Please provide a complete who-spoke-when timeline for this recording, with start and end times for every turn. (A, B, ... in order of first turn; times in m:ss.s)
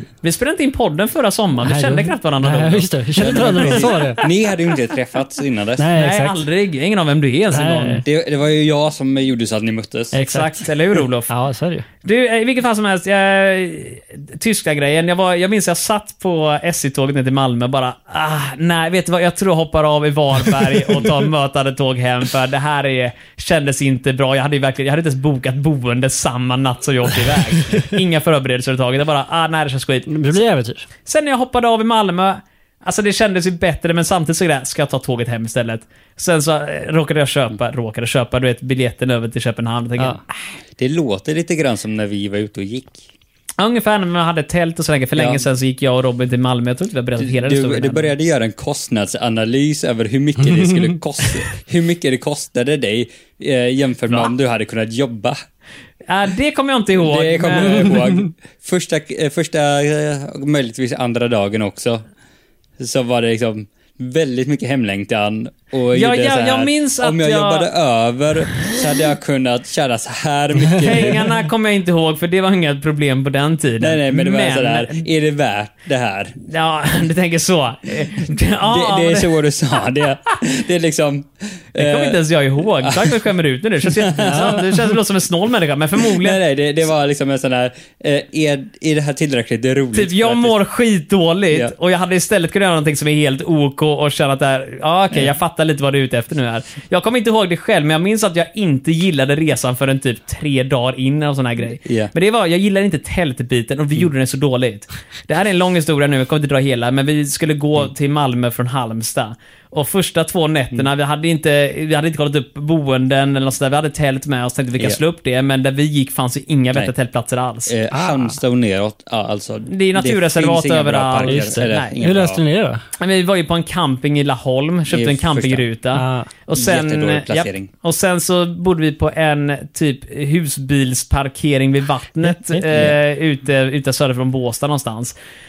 0:00.2-0:04.3 A
0:01.6-0:04.2 B
0:03.2-0:05.9 C
0:05.8-0:06.4 B
0:06.0-0:08.0 A
0:07.5-0:08.0 B
0:08.0-0:10.2 C
0:10.1-0:10.6 B
0:10.2-0:11.3 A
0:11.3-0:11.9 B
0:12.0-0:30.4 A
0:30.1-0:30.9 B
0:31.0-0:40.2 A
0:40.8-0:43.0 C
0:43.6-0:48.1 A
0:45.2-0:45.4 C
0:47.2-0:55.4 C
0:56.1-0:58.0 A
0:57.0-1:02.0 C
1:02.8-1:11.3 C
1:05.9-1:07.7 A
1:10.8-1:15.0 A
1:13.8-1:16.4 C
1:16.5-1:19.4 A
1:18.6-1:22.2 C
1:21.8-1:26.4 A
1:22.8-1:23.2 C
1:24.0-1:24.6 C
1:24.3-1:24.6 B
1:26.0-1:30.6 C
1:29.9-1:57.7 A
1:41.8-1:42.1 C
1:57.7-2:02.4 C
1:57.9-1:58.3 B
1:59.7-2:01.9 A
2:01.2-2:02.8 B
2:03.0-2:15.2 A
2:04.9-2:05.7 C
2:05.9-2:06.3 B
2:06.6-2:07.7 C
2:12.7-2:13.0 C